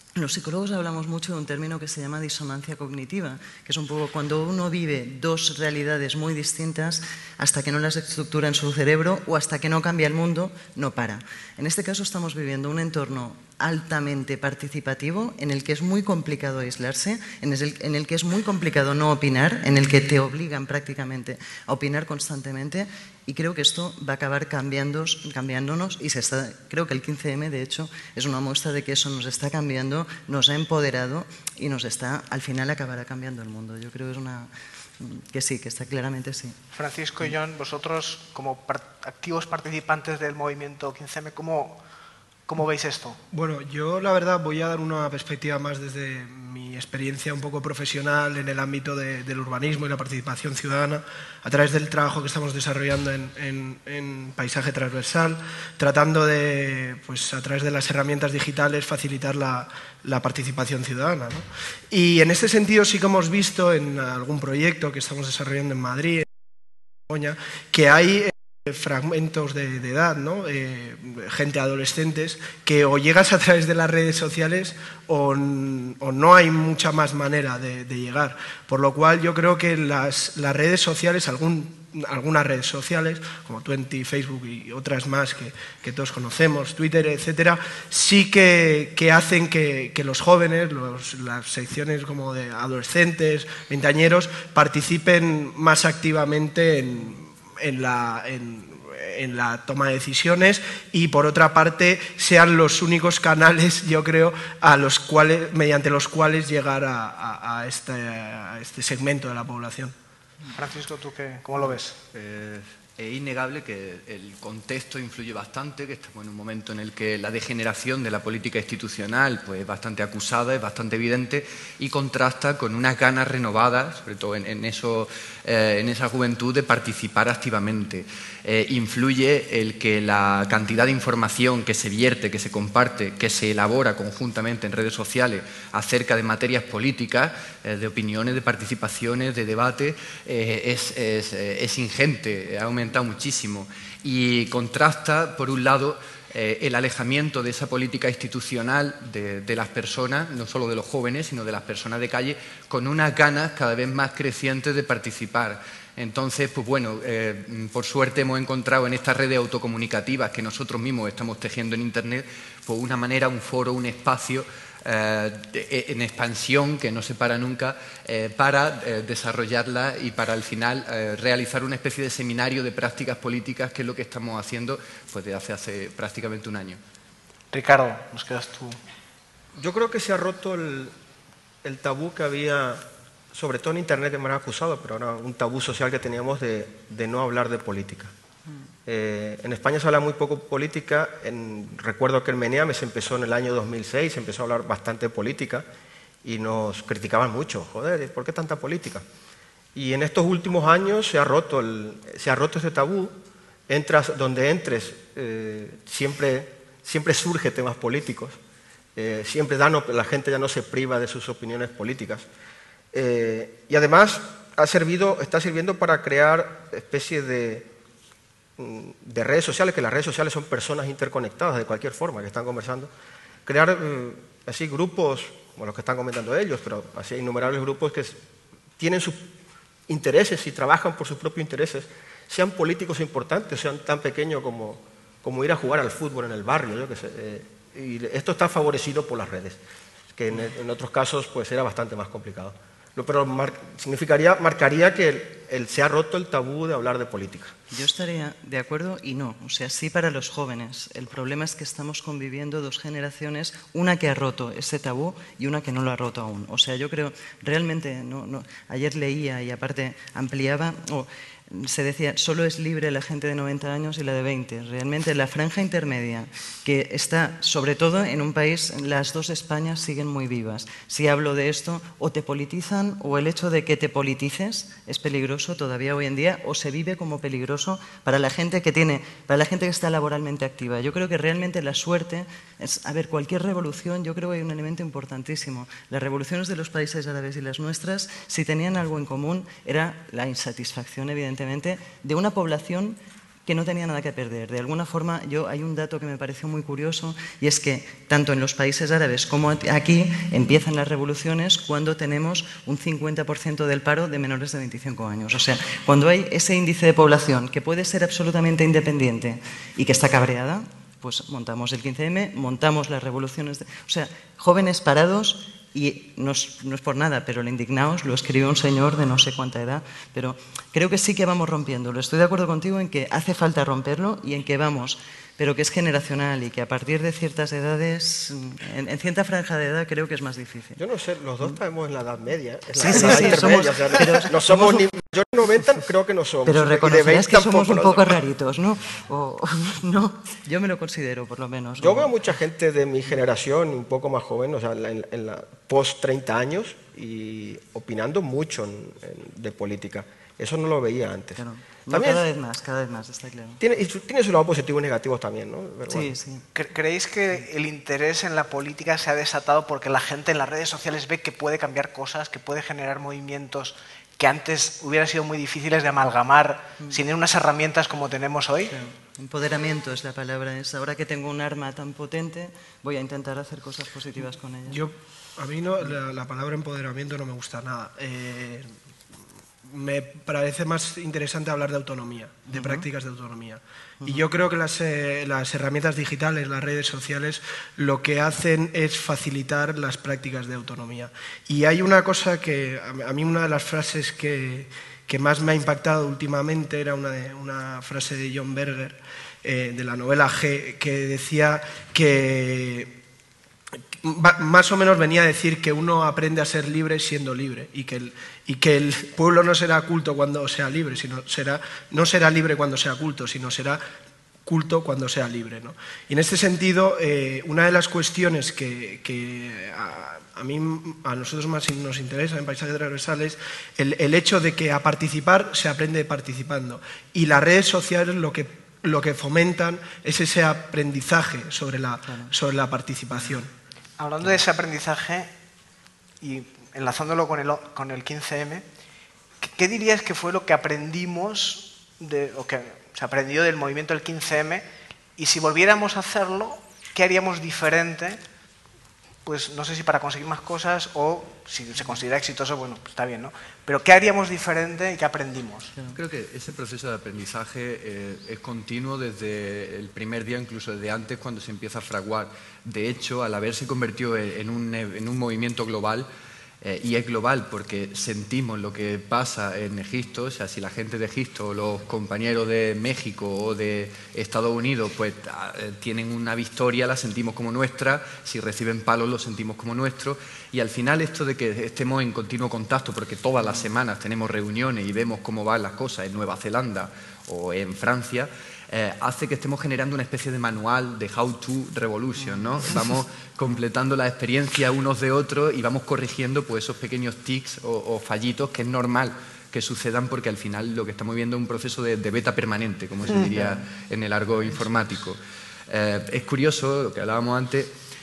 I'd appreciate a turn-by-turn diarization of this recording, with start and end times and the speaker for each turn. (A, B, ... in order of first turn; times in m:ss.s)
0:00.2-0:36.6 A
0:36.7-0:41.8 B
0:42.5-0:43.2 B
0:43.3-1:06.3 C
1:07.1-1:49.9 C
1:50.6-1:52.0 B
1:52.1-2:56.8 D
2:57.5-2:58.8 B
2:59.6-3:00.9 E
3:01.6-3:08.1 E
3:08.9-3:15.7 E
3:16.2-3:19.0 E
3:19.8-3:23.2 E
3:23.7-3:28.4 E
3:28.9-3:32.2 E
3:32.9-3:37.7 E
3:38.6-3:42.9 E
3:43.5-3:48.2 E
3:48.8-3:49.3 E
3:49.9-3:59.6 E
4:00.2-4:07.5 E
4:07.7-5:30.8 A
5:30.8-5:38.2 E
5:32.8-5:34.8 A
5:36.5-5:42.1 A
5:41.8-5:52.2 E
5:51.4-5:53.6 A
5:53.6-5:56.1 E
5:55.9-5:56.4 A
5:56.5-6:08.8 B
6:08.7-6:14.8 A
6:14.7-6:18.7 C
6:19.6-6:42.9 C
6:22.5-6:22.9 A
6:24.0-6:24.3 A
6:44.0-6:53.8 C
6:54.5-7:13.5 C
7:14.0-7:15.3 B
7:16.2-7:18.6 B
7:19.4-7:24.6 B
7:25.2-7:28.2 B
7:29.2-7:35.7 B
7:35.9-7:46.1 D
7:46.6-8:27.7 D